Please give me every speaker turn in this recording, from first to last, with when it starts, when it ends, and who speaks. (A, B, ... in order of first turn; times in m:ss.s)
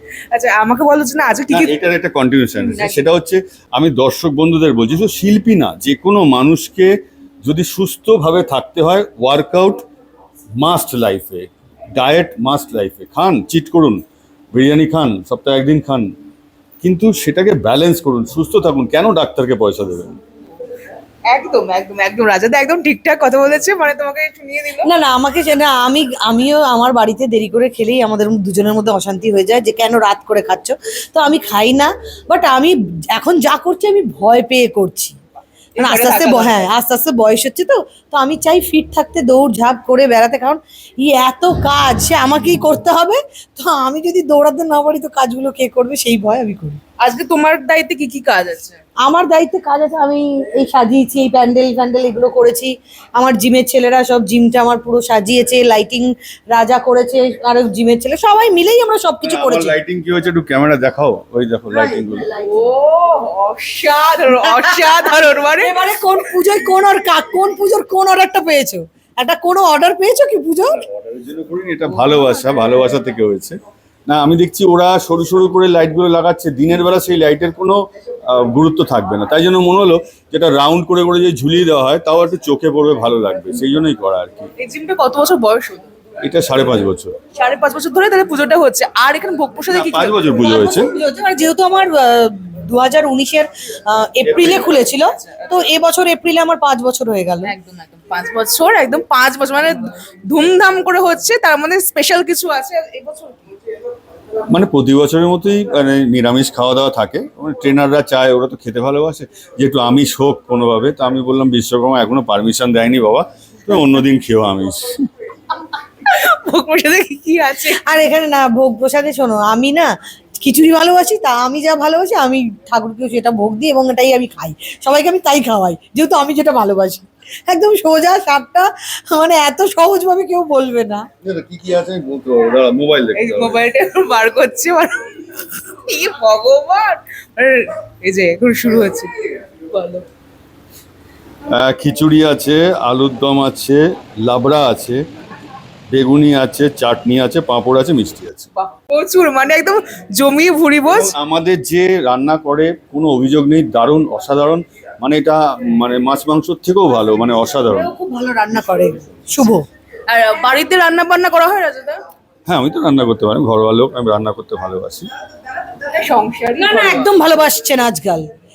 0:00.3-0:01.7 A
0:01.5-0:06.9 B
0:02.6-0:03.1 A
0:07.4-0:09.8 B
0:10.6-0:14.0 B
0:14.5-0:16.1 B
0:16.8-0:20.2 B
0:21.3-0:24.9 A
0:24.8-0:35.2 C
0:35.8-0:36.7 A
0:35.8-0:46.8 C
0:47.0-0:48.8 A
0:49.0-0:59.8 C
0:59.2-1:02.3 B
1:01.7-1:02.5 C
1:02.4-1:05.7 A
1:05.6-1:10.8 C
1:10.9-1:24.5 B
1:24.6-1:25.9 A
1:26.2-1:27.1 B
1:27.4-1:30.2 A
1:29.7-1:30.9 B
1:30.4-1:37.5 C
1:34.2-1:34.8 B
1:34.9-1:35.4 A
1:37.4-1:43.4 A
1:44.5-1:54.8 B
1:56.0-1:58.0 A
1:57.8-1:59.9 C
2:00.4-2:11.0 C
2:11.2-2:13.6 B
2:13.2-2:20.0 A
2:21.5-2:25.0 B
2:25.9-2:28.5 B
2:28.6-2:31.1 A
2:30.9-2:37.9 B
2:37.7-2:39.6 C
2:40.1-2:42.0 A
2:42.5-2:45.1 B
2:45.9-2:47.1 A
2:46.6-2:48.2 C